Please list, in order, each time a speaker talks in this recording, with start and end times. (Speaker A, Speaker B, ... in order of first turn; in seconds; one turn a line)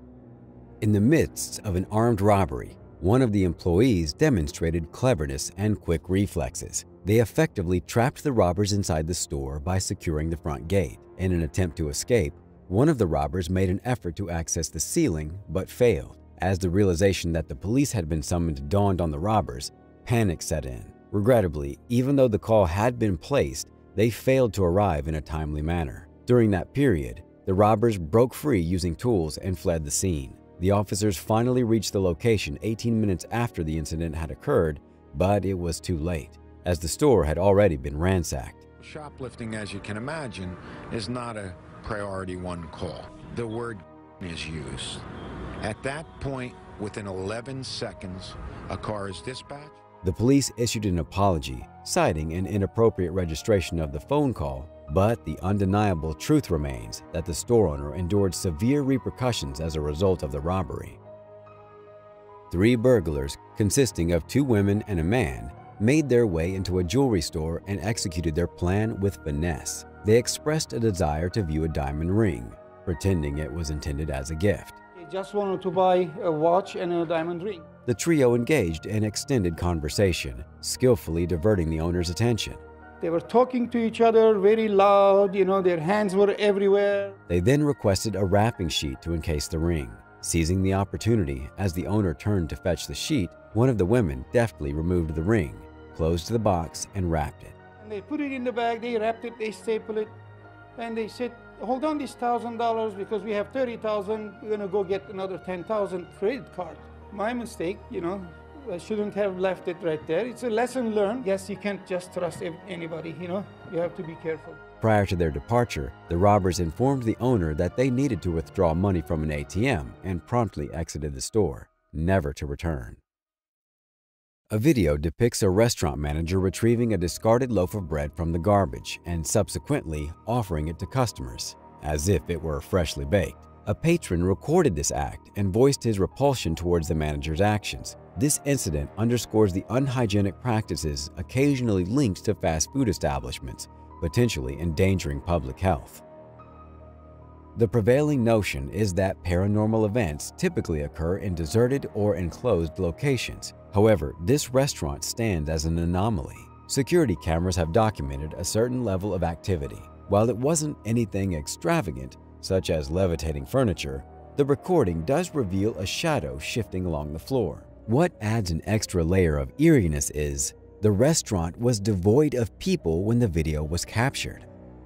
Speaker A: 0.8-38.6
Speaker B: 38.8-45.0
Speaker B: 45.6-49.8
Speaker A: 50.0-61.0
Speaker A: 62.5-74.8
Speaker C: 75.0-77.7
Speaker A: 77.9-82.6
Speaker C: 83.0-87.1
Speaker A: 87.3-97.5
Speaker C: 97.8-100.1
Speaker C: 100.8-114.6
Speaker A: 114.8-123.0
Speaker A: 124.5-146.0
Speaker A: 147.6-174.5